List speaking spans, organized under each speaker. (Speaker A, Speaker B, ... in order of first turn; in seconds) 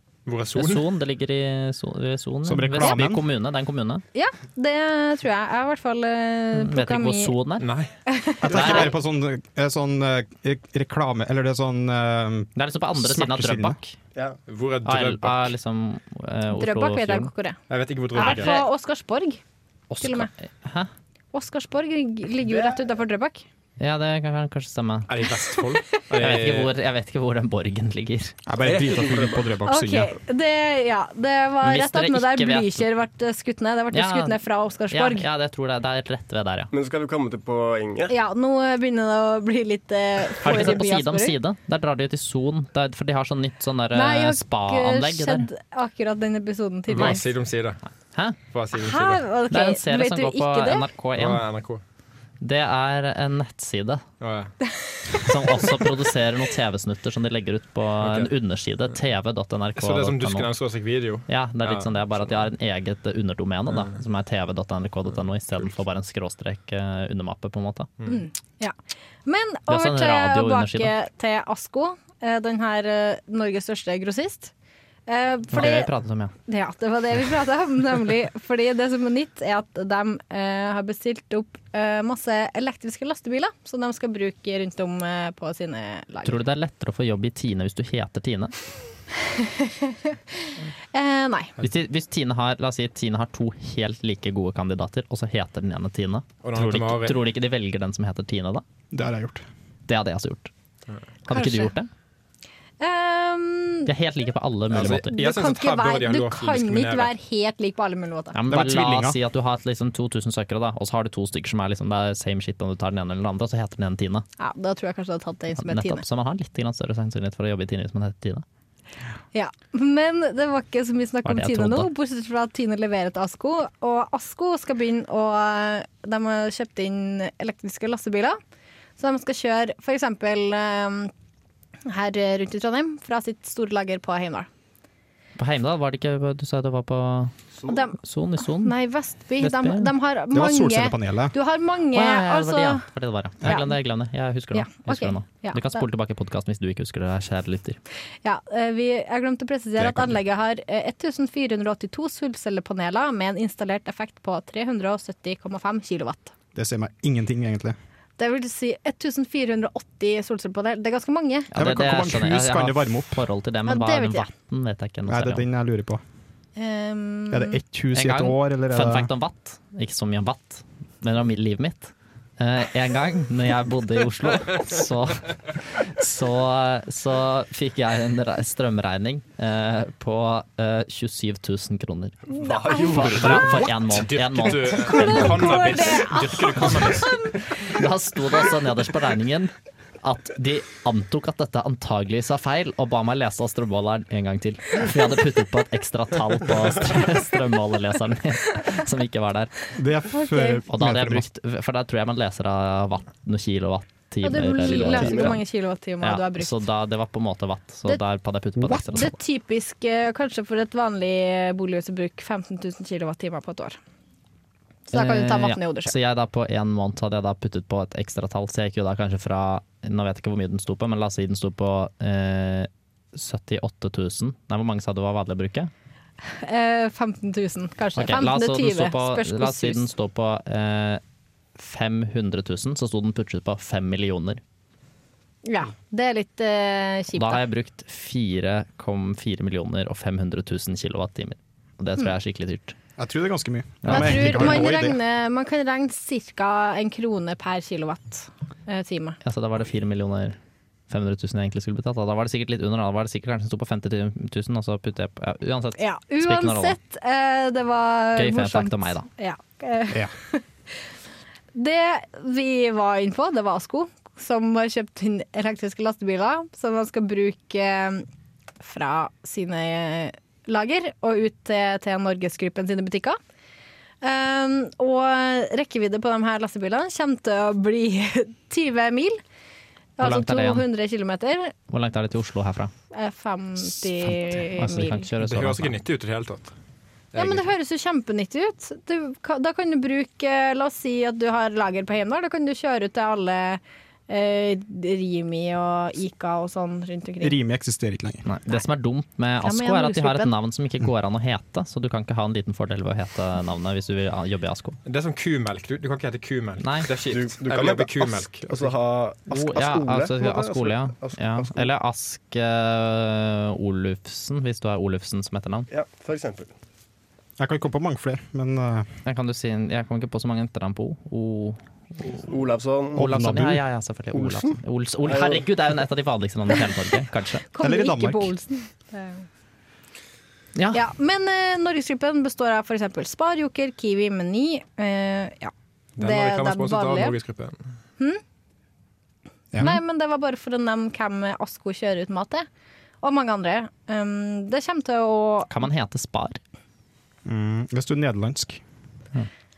Speaker A: 0.3-0.9, 7.6-7.9, 14.5-15.5, 17.7-18.6, 25.1-26.7, 46.9-47.8, 48.5-49.3, 51.1-51.8, 54.2-54.5, 58.0-58.3, 59.8-62.4, 63.7-64.0, 96.4-97.2, 104.7-107.1, 149.8-150.1, 183.2-187.3, 285.2-286.5, 287.1-287.5, 304.9-308.7, 336.0-337.8
Speaker B: 0.6-4.0, 6.5-7.7, 8.5-8.9, 12.6-13.9, 14.8-17.3, 18.2-18.6, 19.9-20.9, 23.8-25.1, 26.2-28.3, 31.6-32.8, 33.9-34.4, 34.9-36.7, 40.4-45.5, 46.9-47.2, 49.5-51.4, 52.4-54.0, 55.2-60.5, 61.3-67.9, 69.7-70.9, 75.5-76.3, 86.2-88.5, 91.6-98.6, 99.9-100.5, 101.3-101.9, 103.9-105.1, 108.3-114.3, 115.6-118.4, 121.2-121.9, 135.4-137.3, 138.0-138.8, 139.4-139.9, 141.9-147.8, 161.5-165.5, 167.9-182.2, 182.8-185.9, 186.6-199.5, 200.7-205.4, 206.0-209.1, 214.9-225.7, 227.9-231.0, 231.6-234.4, 237.1-242.8, 243.8-244.7, 249.2-250.4, 250.9-256.8, 258.1-259.1, 280.0-280.6, 281.7-282.7, 283.8-285.8, 298.2-304.8, 306.6-306.9, 309.3-315.7, 319.1-322.3, 322.9-327.5, 330.6-330.8, 345.5-346.4
Speaker C: 2.4-3.2, 8.4-13.8, 28.4-30.1, 98.9-99.4, 108.5-109.2, 140.3-141.3, 156.6-157.8, 161.6-163.3, 165.1-166.0, 167.3-169.1, 183.3-184.3, 199.8-201.3, 243.0-245.0, 297.2-298.2, 317.4-318.9, 322.9-323.6, 327.6-328.3, 347.2-348.6
Speaker D: 4.1-7.3, 8.1-8.9, 16.5-17.6, 18.1-19.4, 20.0-20.3, 21.3-23.4, 29.6-35.3, 38.1-41.4, 43.9-47.2, 48.7-50.9, 68.1-74.5, 75.1-75.9, 76.5-86.4, 89.2-91.5, 101.3-101.7, 102.8-103.9, 104.8-108.4, 114.4-116.0, 119.3-128.4, 129.0-131.1, 131.9-134.5, 137.7-142.8, 143.4-143.7, 144.5-145.8, 148.2-156.3, 158.2-161.5, 163.7-164.3, 166.6-167.6, 182.4-183.4, 184.5-187.3, 200.1-200.6, 204.2-206.6, 208.7-213.8, 214.9-215.9, 226.3-229.9, 235.4-237.4, 243.9-249.2, 255.8-260.4, 261.5-268.1, 268.6-273.2, 274.0-279.2, 280.0-281.5, 282.9-285.1, 287.1-297.4, 299.4-300.3, 327.5-329.3, 330.7-337.1, 339.6-342.5, 343.0-345.5
Speaker E: 22.4-22.9, 28.6-29.6, 36.7-38.1, 182.4-183.5, 204.6-205.4, 307.0-311.7, 315.7-316.5, 322.1-323.1, 324.1-325.4